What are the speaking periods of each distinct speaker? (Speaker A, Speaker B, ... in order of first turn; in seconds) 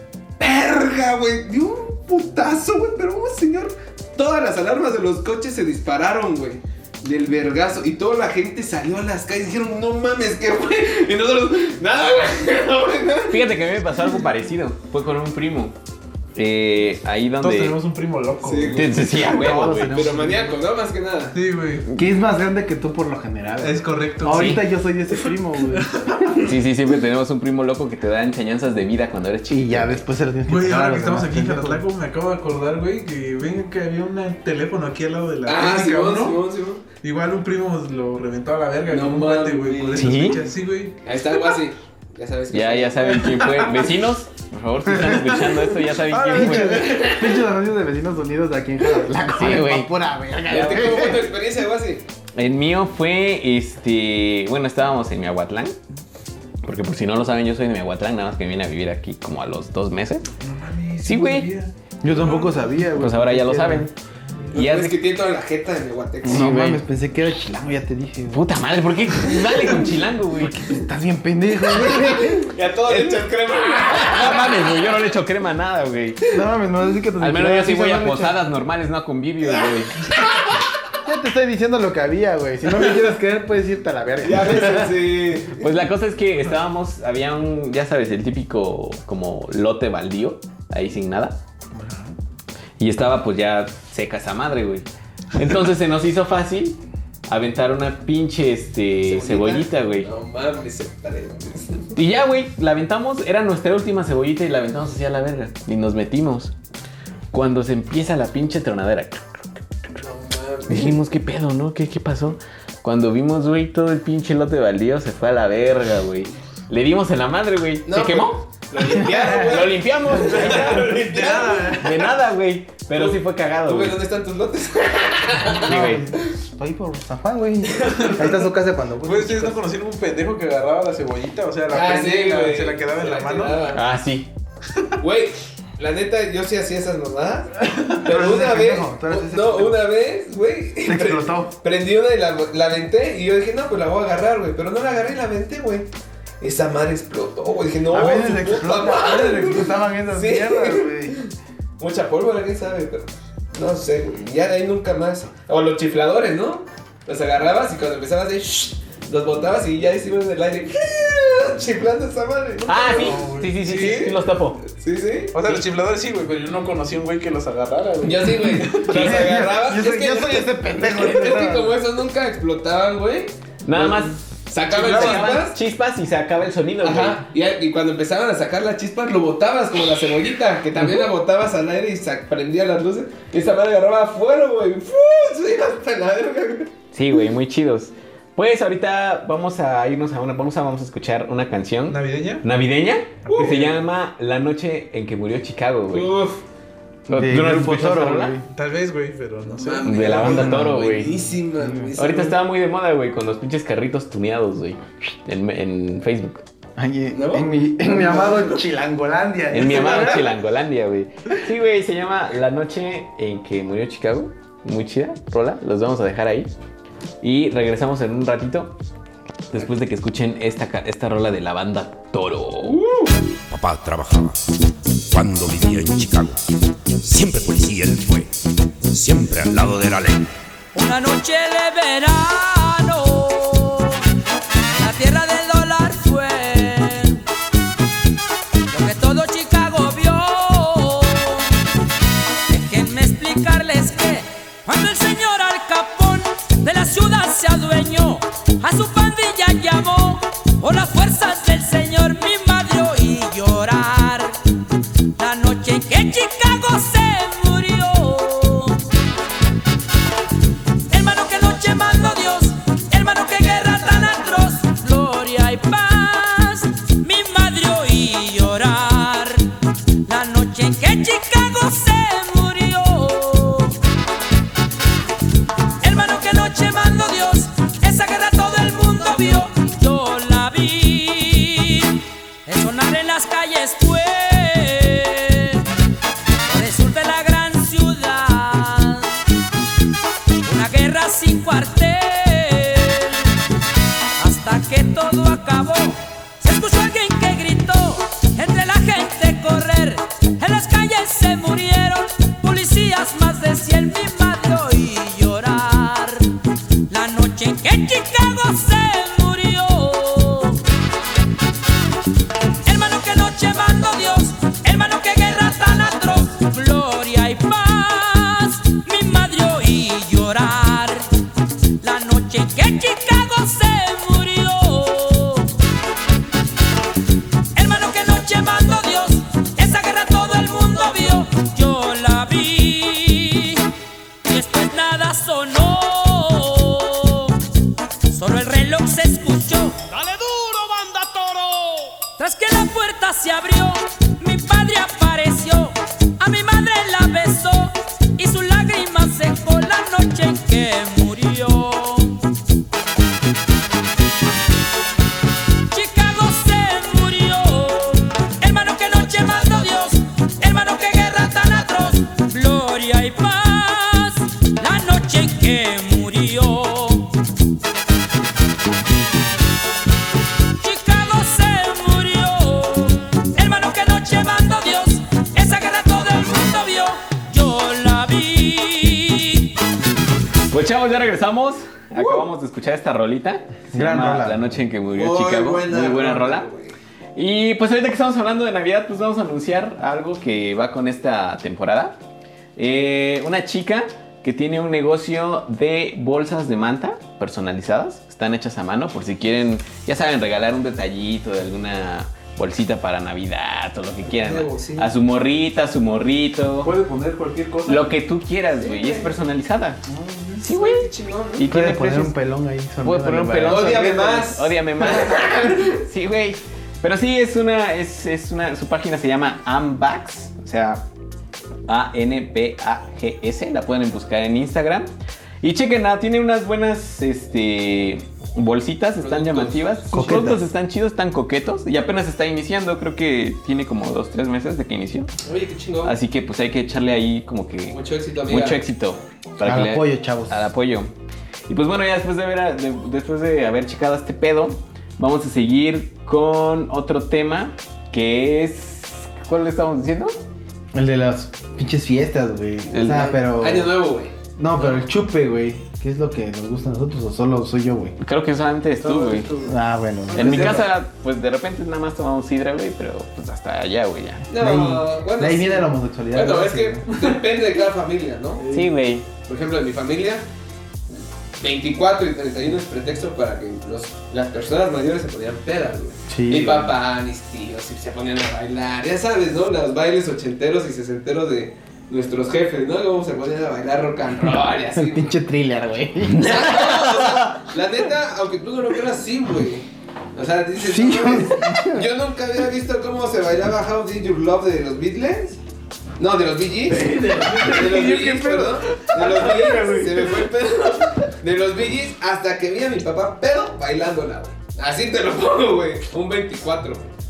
Speaker A: 0.4-13.5, 18.4-21.4, 35.4-36.8, 38.9-40.3, 41.0-43.2, 46.7-47.4, 50.5-52.0, 64.5-66.5, 71.7-74.9, 79.6-80.6, 84.2-85.7, 99.1-101.9, 110.0-111.0, 117.8-121.9, 122.9-125.9, 131.7-133.8, 135.0-145.9, 146.4-164.2, 164.8-165.6, 168.0-175.6, 176.8-186.7, 193.3-193.7, 195.9-196.4, 199.5-202.4, 207.1-208.7, 209.6-210.2, 222.6-223.2, 381.9-382.2, 384.9-386.8, 404.0-404.9, 408.6-409.1, 410.5-411.5, 413.5-415.8, 429.0-429.8, 435.2-436.0, 437.7-438.6, 452.9-454.8, 464.3-468.4, 469.3-470.2, 471.4-485.1, 486.1-495.4, 496.0-506.9
Speaker B: 13.3-15.7, 16.4-17.8, 18.7-20.1, 24.3-24.6, 26.5-30.0, 40.0-40.4, 42.5-47.1, 49.3-49.9, 52.4-55.8, 56.6-60.3, 61.0-61.5, 63.0-63.9, 64.5-65.0, 66.2-66.8, 68.3-70.6, 72.9-76.2, 77.2-80.0, 85.6-91.3, 92.8-96.8, 97.3-100.1, 101.9-106.5, 107.3-109.4, 110.7-118.4, 119.3-120.9, 121.8-124.0, 125.7-126.0, 133.7-134.3, 162.7-164.6, 173.6-177.2, 186.9-196.1, 197.1-198.4, 199.8-201.1, 202.0-206.4, 209.5-216.5, 217.2-218.8, 219.5-222.8, 380.5-386.4, 387.1-391.9, 392.6-406.7, 407.6-409.8, 410.4-412.1, 412.8-420.8, 421.7-424.9, 425.4-435.1, 435.8-437.8, 438.3-440.9, 441.5-450.1, 452.7-453.1, 458.0-459.3, 460.1-464.3, 468.5-469.0
Speaker C: 17.4-18.9, 21.3-21.9, 23.6-24.6, 25.3-26.4, 30.5-36.4, 37.0-41.0, 43.1-43.9, 46.2-46.5, 60.4-62.7, 120.4-121.9, 128.0-128.3, 129.0-133.6, 162.6-164.1, 165.3-169.2, 191.9-192.4, 193.2-193.8, 198.5-200.4, 406.6-408.0, 409.9-410.4, 458.8-460.7, 468.4-468.7, 496.7-500.3
Speaker D: 19.0-20.6, 21.9-26.3, 29.5-31.8, 44.9-51.3, 62.0-63.9, 66.2-68.5, 70.3-72.5, 76.3-78.4, 81.0-85.0, 118.9-119.5, 120.1-120.8, 125.5-129.6, 137.6-139.9, 140.8-141.6, 147.9-151.2, 168.9-171.8, 197.1-198.4, 200.2-200.8, 201.6-201.9, 206.8-210.3, 383.7-384.6, 411.5-413.9, 429.9-430.5, 439.4-440.5, 450.7-453.7, 454.4-457.9, 459.4-460.6, 464.3-466.9, 476.1-476.7, 484.7-487.4, 490.6-491.9
Speaker E: 223.5-224.4, 225.1-226.4, 227.0-230.3
Speaker F: 230.7-234.0, 234.7-237.2, 238.7-241.6, 242.5-254.3, 255.2-258.8, 260.9-269.4, 270.0-273.8, 275.8-285.6, 286.5-289.1, 290.4-293.3, 294.2-306.2, 306.9-310.6, 312.6-321.0, 321.8-325.5, 327.5-333.7, 334.2-337.4, 338.1-352.2, 355.7-367.1, 370.6-379.5